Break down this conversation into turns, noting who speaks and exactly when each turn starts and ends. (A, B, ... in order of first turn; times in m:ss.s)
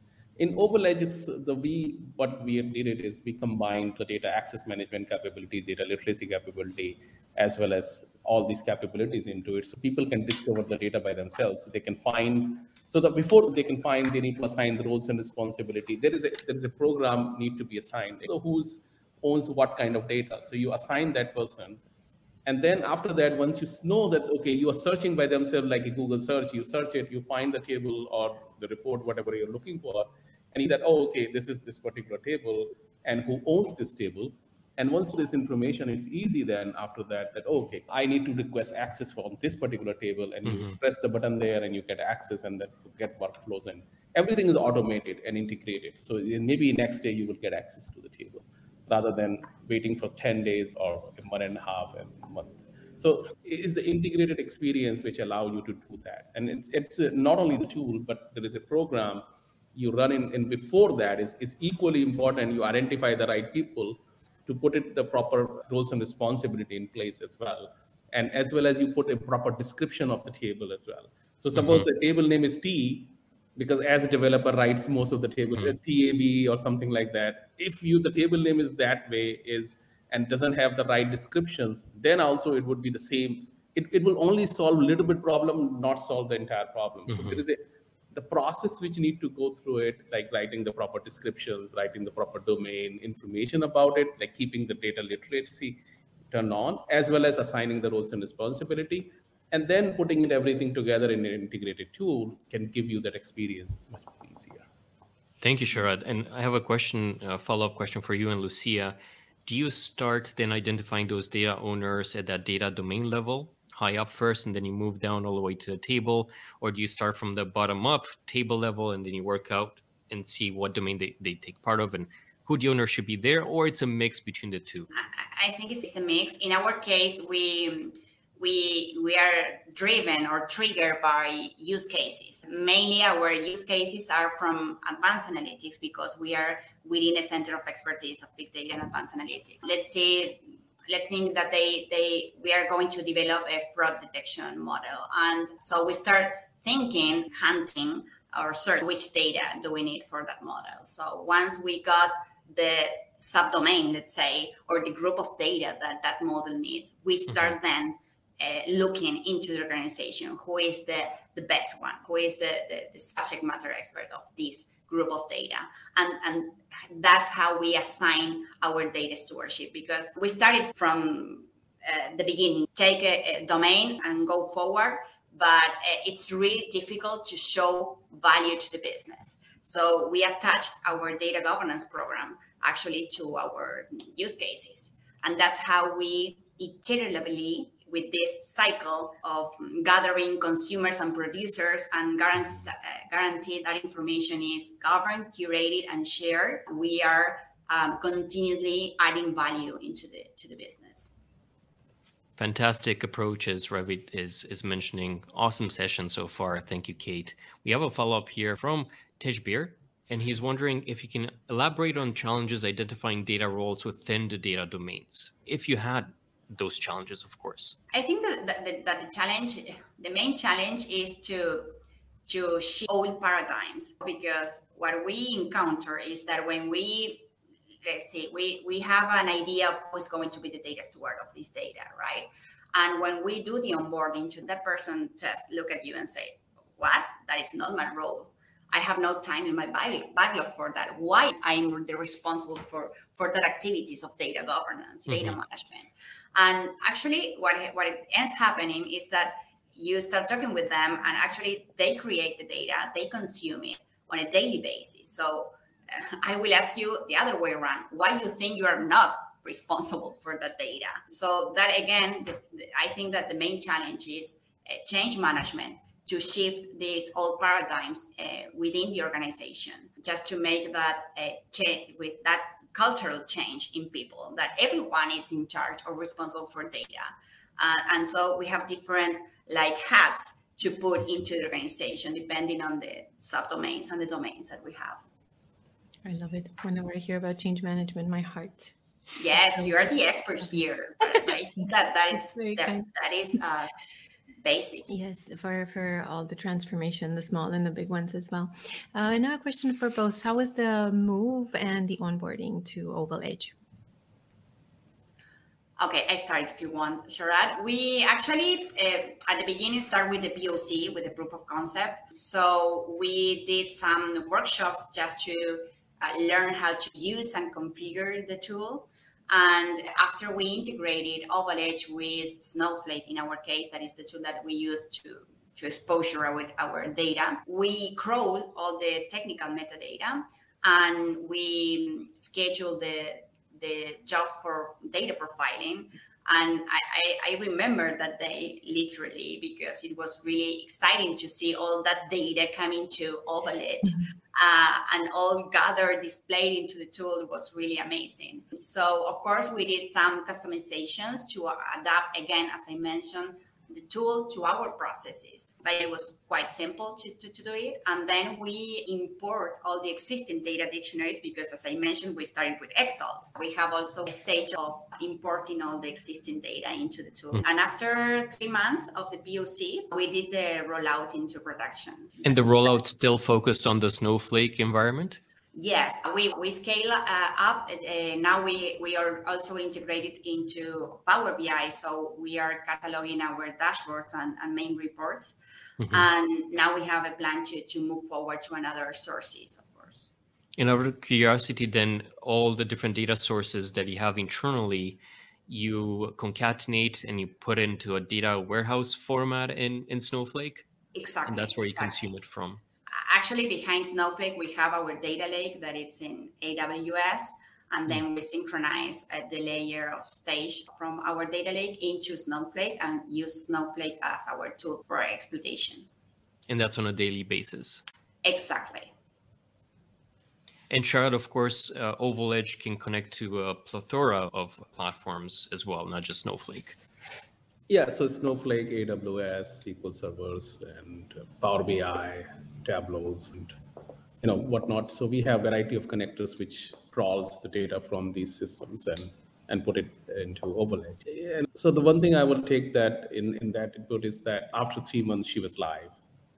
0:00.4-0:21.8 A
0:22.5-0:59.2 A
0:40.5-0:40.7 B
0:59.8-1:44.7 A
1:11.6-1:11.9 B
1:27.1-1:27.4 B
1:45.4-2:04.9 B
2:04.9-3:21.1 C
3:22.4-3:37.8 B
3:37.9-3:47.3 C
3:47.8-4:45.0 C
4:05.1-4:05.4 B
4:46.0-4:48.8 D
4:49.2-4:53.7 C
4:49.3-4:49.8 D
4:51.6-4:52.9 D
4:54.4-4:54.9 C
4:54.9-5:03.6 D
5:05.8-6:12.8 C
6:12.2-6:15.2 B
6:15.6-6:25.4 C
6:25.8-6:26.1 B
6:25.9-6:30.1 C
6:30.6-6:40.7 B
6:40.9-6:42.0 C
6:41.3-6:42.6 B
6:42.9-6:55.9 C
6:56.5-6:57.8 B
6:58.2-6:58.9 C
7:00.7-7:06.8 B
7:07.7-7:13.6 A
7:14.2-7:26.0 A